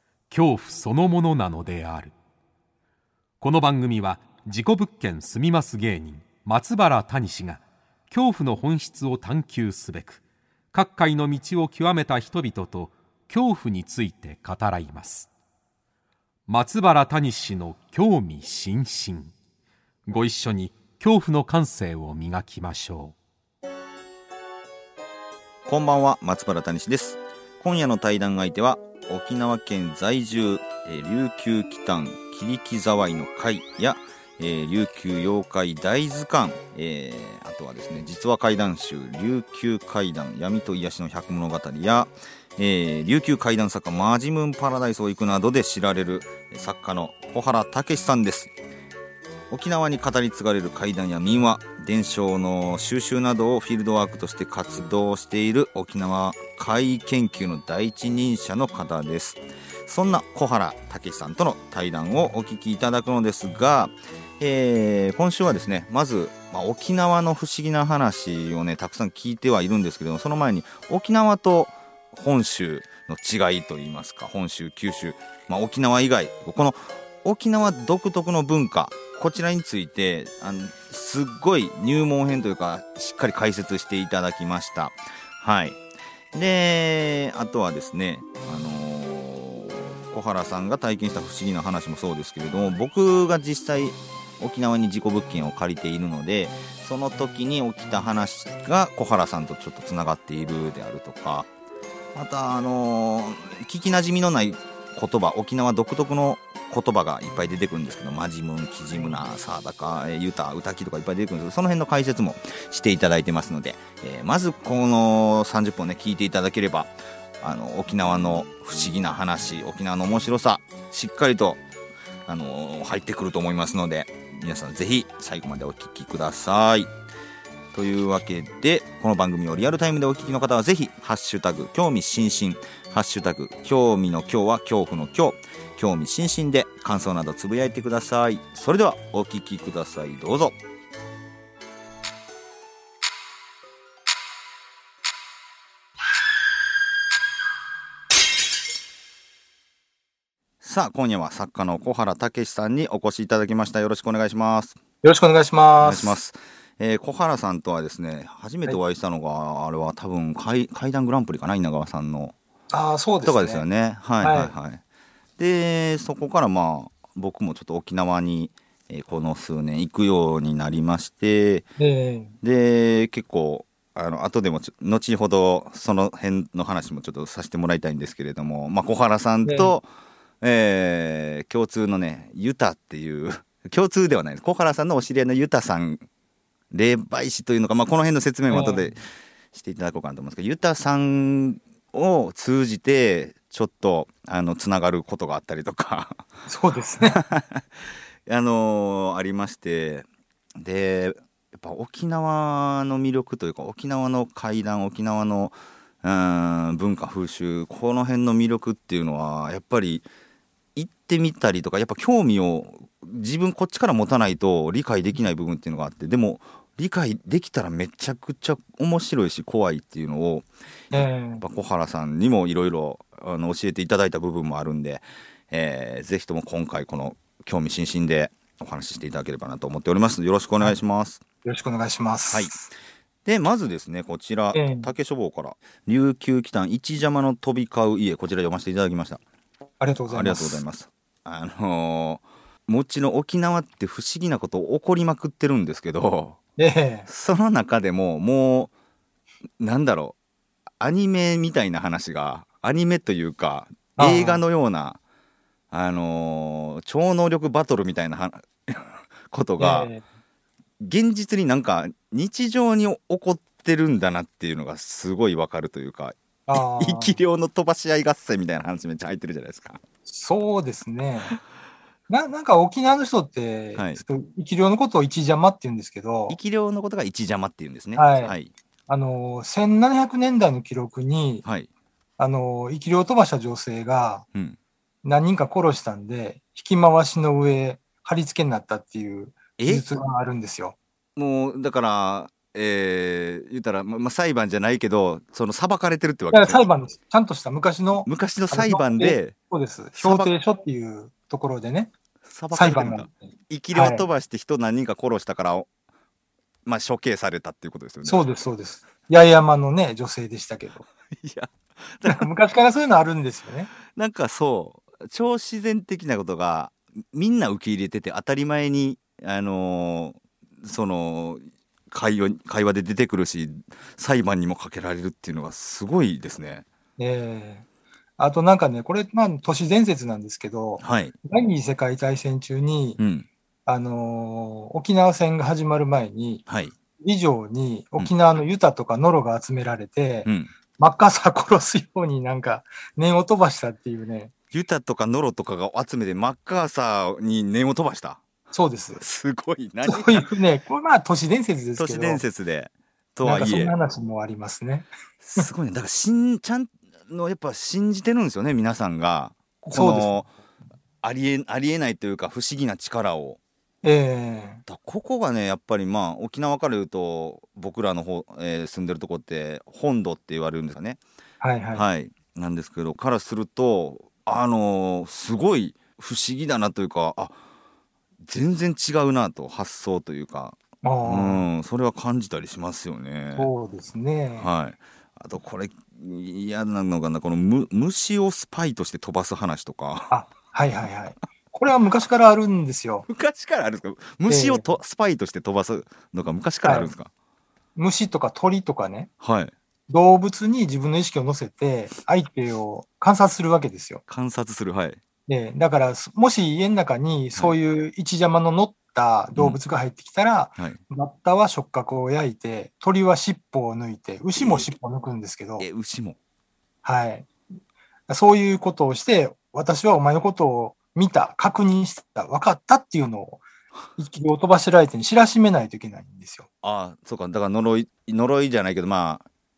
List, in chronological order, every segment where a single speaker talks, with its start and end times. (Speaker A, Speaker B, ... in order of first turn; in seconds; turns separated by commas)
Speaker A: 0.3-2.1, Speaker A: 3.4-10.2, Speaker A: 10.7-15.3, Speaker A: 16.5-19.3, Speaker A: 20.1-23.1, Speaker B: 25.7-48.5, Speaker B: 49.5-85.8, Speaker B: 86.3-101.5, Speaker B: 102.1-121.6, Speaker B: 122.3-126.9, Speaker B: 127.7-140.6, Speaker B: 150.6-154.8, Speaker C: 155.0-156.2, Speaker B: 155.8-162.3, Speaker C: 162.7-163.7, Speaker B: 163.2-164.8, Speaker C: 164.2-164.5, Speaker B: 165.4-171.7, Speaker C: 171.8-172.3, Speaker B: 172.4-179.8, Speaker C: 179.4-179.8, Speaker B: 180.4-186.0, Speaker B: 186.7-196.2, Speaker C: 188.5-188.9, Speaker C: 196.5-197.2, Speaker B: 197.0-197.6, Speaker B: 198.3-200.1, Speaker B: 200.6-210.1, Speaker B: 210.8-231.2, Speaker C: 220.9-221.4, Speaker C: 231.4-232.7, Speaker B: 233.2-239.2, Speaker C: 234.5-234.9, Speaker C: 239.8-240.6, Speaker B: 240.1-246.4, Speaker C: 246.6-247.1, Speaker B: 247.1-248.7, Speaker B: 249.6-250.2, Speaker B: 250.8-255.0, Speaker C: 254.0-254.4, Speaker B: 255.7-259.9, Speaker C: 259.6-260.0, Speaker B: 260.8-269.8, Speaker C: 266.5-267.2, Speaker C: 270.1-271.4, Speaker C: 272.1-276.4, Speaker B: 273.8-274.0, Speaker B: 276.3-278.5, Speaker C: 277.9-278.4, Speaker C: 278.9-281.4, Speaker B: 281.4-281.7, Speaker C: 282.2-284.2, Speaker C: 285.0-290.8, Speaker B: 289.6-289.9, Speaker B: 291.2-296.6, Speaker C: 296.3-301.9, Speaker B: 298.1-299.4, Speaker B: 299.9-300.3, Speaker B: 302.2-305.7, Speaker C: 302.5-304.1, Speaker B: 306.7-308.2, Speaker C: 308.1-310.8, Speaker B: 311.1-312.3, Speaker C: 312.1-313.7, Speaker B: 313.9-326.6, Speaker C: 327.0-327.7, Speaker C: 328.2-333.0, Speaker B: 330.8-331.1, Speaker B: 333.0-333.3, Speaker C: 333.7-336.4, Speaker B: 336.5-336.8, Speaker C: 337.0-344.3, Speaker B: 340.2-340.5, Speaker B: 344.5-348.2, Speaker C: 348.5-349.0, Speaker B: 349.0-350.3, Speaker C: 349.8-352.2, Speaker B: 351.8-353.7, Speaker C: 353.2-355.5, Speaker B: 355.2-360.3, Speaker C: 359.6-360.1, Speaker B: 361.0-363.4, Speaker C: 363.8-364.6, Speaker B: 364.7-371.0, Speaker C: 371.4-371.9, Speaker B: 371.8-377.4, Speaker B: 378.2-383.5, Speaker C: 380.8-381.5, Speaker C: 383.4-384.5, Speaker B: 384.4-390.1, Speaker C: 390.1-393.1, Speaker B: 393.1-397.1, Speaker C: 394.3-394.7, Speaker C: 396.6-396.9, Speaker C: 397.8-399.1, Speaker B: 399.2-399.5, Speaker C: 399.9-404.0, Speaker B: 404.1-405.0, Speaker C: 405.3-415.7, Speaker B: 414.4-414.7, Speaker B: 415.6-416.2, Speaker C: 416.8-417.3, Speaker C: 418.1-423.4, Speaker C: 424.0-426.5, Speaker B: 426.6-429.3